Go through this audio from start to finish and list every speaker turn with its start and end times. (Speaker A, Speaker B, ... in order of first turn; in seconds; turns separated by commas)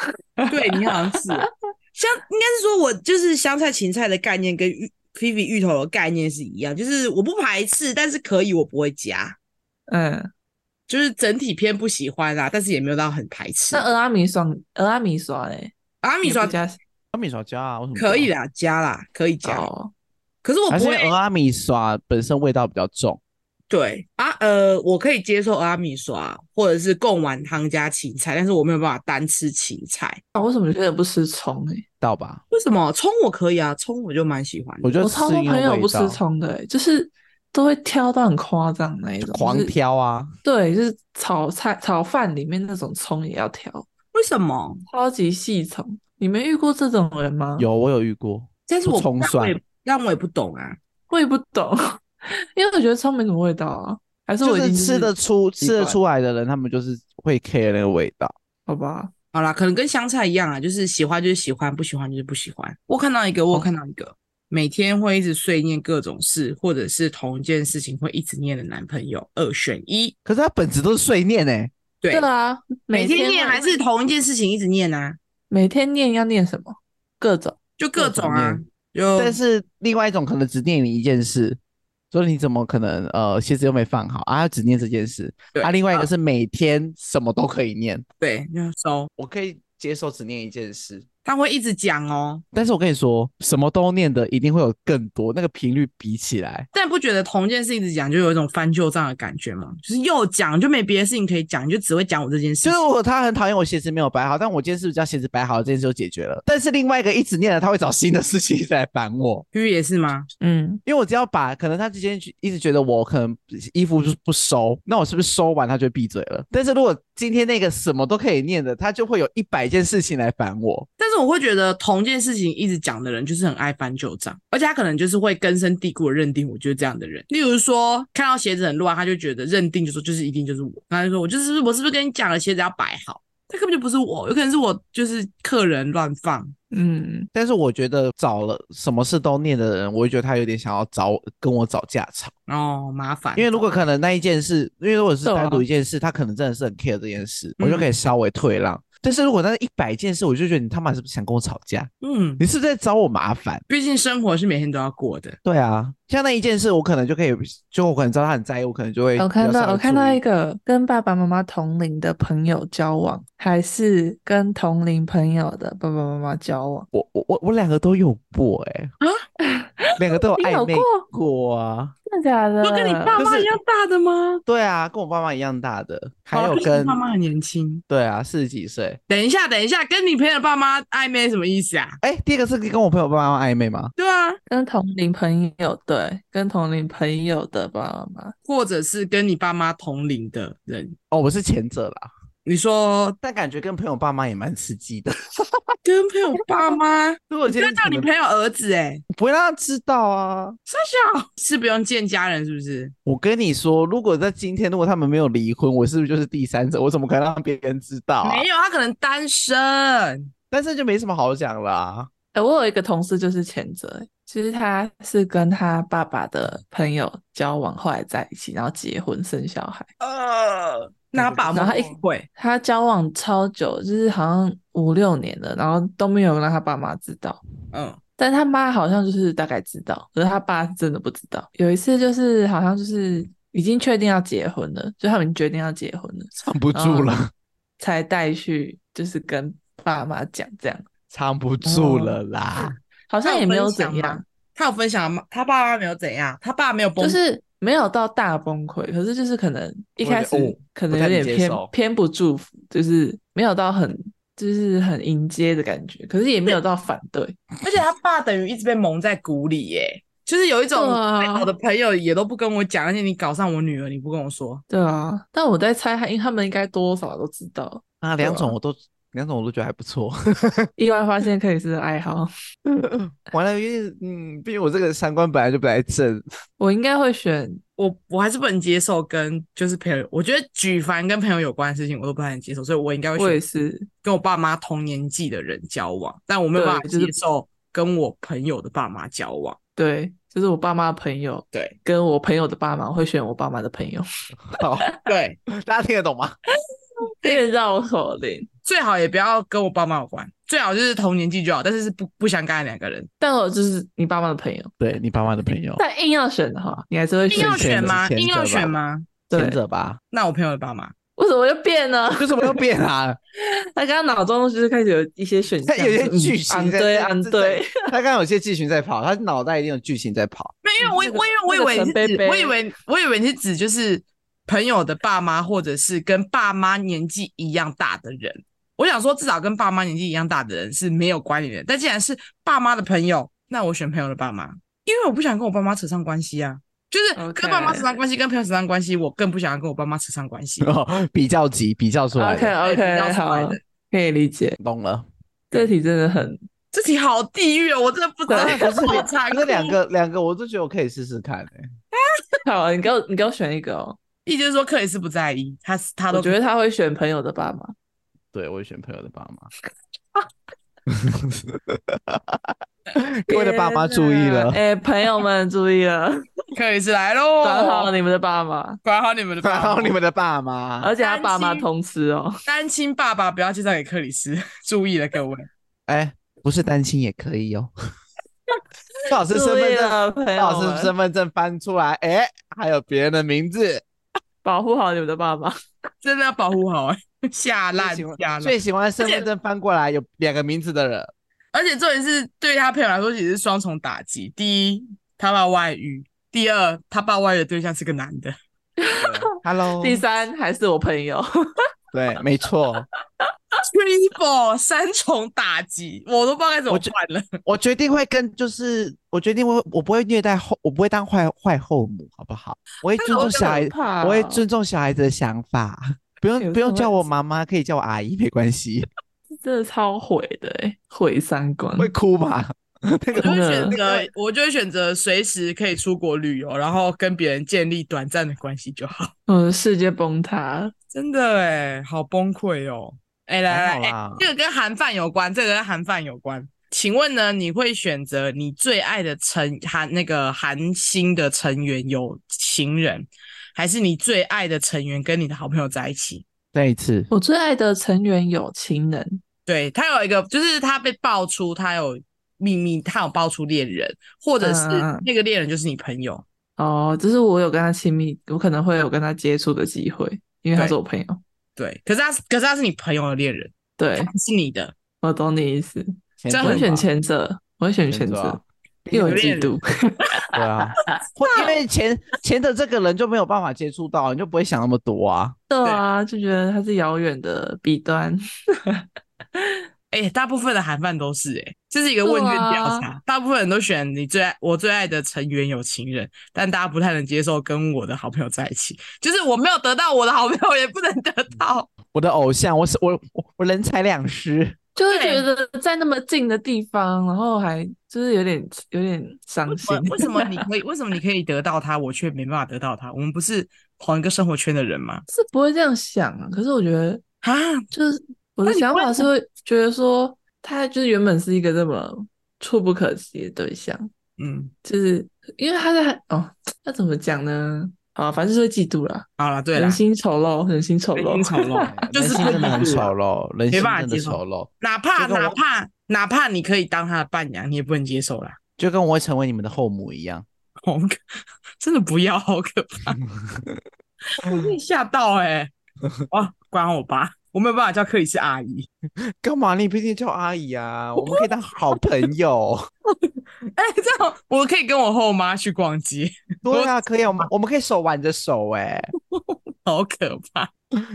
Speaker A: 0.4-1.5, Speaker B: 0.5-9.3, Speaker A: 9.9-10.3, Speaker B: 10.9-13.9, Speaker A: 13.7-16.8, Speaker B: 16.0-16.6, Speaker C: 17.1-18.3, Speaker B: 17.9-19.7, Speaker A: 19.4-19.9, Speaker B: 20.4-21.1, Speaker C: 20.7-23.2, Speaker B: 23.7-30.2, Speaker A: 30.3-31.8, Speaker C: 32.0-32.4, Speaker B: 32.5-34.9, Speaker C: 34.8-36.2, Speaker A: 35.0-39.7, Speaker C: 39.2-40.3, Speaker A: 40.4-43.9, Speaker B: 44.1-44.8, Speaker A: 44.9-47.7, Speaker C: 47.6-49.6, Speaker B: 48.7-50.8, Speaker A: 51.1-55.9, Speaker C: 54.4-58.3, Speaker A: 58.7-59.1, Speaker B: 59.3-70.1, Speaker C: 70.2-71.7, Speaker B: 72.0-72.3, Speaker A: 72.1-73.8, Speaker B: 72.9-75.2, Speaker A: 75.5-77.6, Speaker B: 77.8-79.4, Speaker C: 78.0-78.6, Speaker C: 79.2-81.6, Speaker C: 82.1-88.0, Speaker B: 85.5-86.1, Speaker B: 88.2-89.1, Speaker C: 89.2-91.0, Speaker B: 91.2-92.4, Speaker C: 92.5-96.7, Speaker B: 96.7-102.8, Speaker C: 102.6-109.4, Speaker B: 109.5-110.3, Speaker A: 110.4-110.8, Speaker C: 110.8-120.9, Speaker B: 121.0-136.5, Speaker A: 136.7-137.3, Speaker C: 137.3-142.3, Speaker B: 142.5-143.5, Speaker C: 143.3-153.6, Speaker A: 145.2-145.6, Speaker B: 147.6-147.9, Speaker B: 152.0-152.4, Speaker B: 153.7-155.4, Speaker C: 155.4-160.2, Speaker A: 159.2-166.9, Speaker C: 166.9-168.9, Speaker A: 169.4-171.0, Speaker C: 170.0-171.9, Speaker A: 172.1-173.2, Speaker B: 172.6-174.4, Speaker C: 173.2-173.5, Speaker C: 174.4-177.0, Speaker B: 176.3-177.8, Speaker C: 177.9-179.0, Speaker B: 179.1-182.0, Speaker C: 182.0-183.9, Speaker B: 184.0-184.4, Speaker A: 184.5-188.3, Speaker B: 188.4-190.9, Speaker C: 191.1-192.1, Speaker B: 192.4-193.2, Speaker C: 193.2-195.7, Speaker B: 195.8-199.0, Speaker C: 197.3-198.1, Speaker C: 199.1-200.6, Speaker B: 200.7-202.9, Speaker C: 203.1-208.4, Speaker B: 208.2-210.3, Speaker C: 210.5-212.1, Speaker A: 212.3-219.9, Speaker B: 220.0-222.3, Speaker C: 221.1-222.0, Speaker A: 221.5-227.4, Speaker B: 227.7-228.0, Speaker A: 228.2-237.1, Speaker C: 236.3-237.3, Speaker A: 237.8-240.9, Speaker C: 241.1-242.8, Speaker A: 241.6-242.2, Speaker A: 243.1-244.2, Speaker B: 243.2-247.2, Speaker A: 247.0-257.4, Speaker C: 250.0-251.7, Speaker B: 257.6-264.6, Speaker A: 260.7-261.5, Speaker A: 264.7-268.5, Speaker C: 268.0-270.7, Speaker A: 270.8-272.3, Speaker C: 272.6-276.2, Speaker A: 276.6-277.6, Speaker B: 277.8-283.4, Speaker A: 283.2-283.9, Speaker B: 284.0-289.6, Speaker A: 286.5-287.1, Speaker A: 289.8-294.0, Speaker C: 294.5-294.9, Speaker A: 294.6-295.0, Speaker B: 295.1-295.4, Speaker C: 295.5-296.4, Speaker A: 297.1-298.5, Speaker B: 298.6-303.1, Speaker A: 303.2-304.7, Speaker C: 304.8-305.8, Speaker A: 305.8-307.9, Speaker B: 307.3-309.1, Speaker C: 307.3-308.8, Speaker C: 309.3-310.0, Speaker A: 309.3-309.6, Speaker B: 310.1-310.9, Speaker A: 311.2-312.6, Speaker C: 312.1-313.2, Speaker A: 313.7-317.9, Speaker C: 315.6-320.5, Speaker B: 320.6-340.7, Speaker A: 320.8-322.6, Speaker A: 337.1-338.0, Speaker C: 340.6-342.5, Speaker A: 342.1-344.6, Speaker B: 342.6-343.6, Speaker C: 344.6-345.1, Speaker A: 345.5-346.4, Speaker B: 346.7-349.8, Speaker A: 348.3-349.0, Speaker C: 348.3-351.7, Speaker B: 351.9-352.4, Speaker A: 352.4-354.0, Speaker B: 354.2-356.4, Speaker A: 356.1-357.7, Speaker C: 358.3-359.5, Speaker C: 360.9-364.6, Speaker A: 363.3-366.3, Speaker B: 366.5-367.9, Speaker A: 367.4-368.8, Speaker B: 368.8-369.9, Speaker C: 369.4-370.9, Speaker A: 370.8-372.4, Speaker B: 371.0-371.7, Speaker B: 372.4-375.5, Speaker C: 375.9-377.7, Speaker C: 379.1-383.8, Speaker A: 379.3-380.9, Speaker A: 384.4-385.6, Speaker B: 386.0-389.2, Speaker C: 387.8-391.1, Speaker B: 391.5-398.4, Speaker A: 398.8-399.2, Speaker C: 399.0-400.0, Speaker A: 399.8-401.6, Speaker C: 401.9-402.9, Speaker B: 403.7-407.4, Speaker C: 407.4-418.9, Speaker B: 412.9-413.6, Speaker A: 413.1-414.4, Speaker A: 416.4-417.0, Speaker A: 419.4-421.9, Speaker C: 421.8-424.1, Speaker B: 423.1-429.1, Speaker A: 423.2-423.8, Speaker A: 429.3-430.7, Speaker B: 430.9-446.2, Speaker C: 433.5-434.3, Speaker C: 446.5-447.1, Speaker A: 447.1-449.2, Speaker B: 449.4-456.2, Speaker A: 454.4-455.1, Speaker A: 456.6-461.2, Speaker B: 461.6-464.7, Speaker A: 463.8-464.1, Speaker A: 465.0-471.4, Speaker C: 466.2-466.9, Speaker B: 466.3-466.7, Speaker C: 467.9-469.4, Speaker B: 469.0-469.6, Speaker C: 470.3-475.4, Speaker B: 470.9-471.5, Speaker A: 475.5-479.6, Speaker B: 479.9-491.7, Speaker A: 482.0-482.9, Speaker C: 491.9-494.6, Speaker A: 494.8-500.4, Speaker B: 494.9-495.3, Speaker B: 499.5-505.0, Speaker A: 505.1-507.0, Speaker B: 507.2-507.7, Speaker A: 507.7-513.9, Speaker B: 508.4-509.1, Speaker B: 514.2-514.5, Speaker A: 514.6-522.8, Speaker B: 519.2-519.8, Speaker B: 520.9-522.9, Speaker C: 521.5-525.4, Speaker B: 523.5-528.4, Speaker C: 528.6-530.2, Speaker B: 530.6-533.0, Speaker C: 533.3-533.6, Speaker B: 534.2-535.5, Speaker B: 536.1-538.7, Speaker C: 539.1-542.7, Speaker B: 541.0-541.2, Speaker B: 543.5-547.3, Speaker C: 546.4-548.9, Speaker B: 549.1-550.5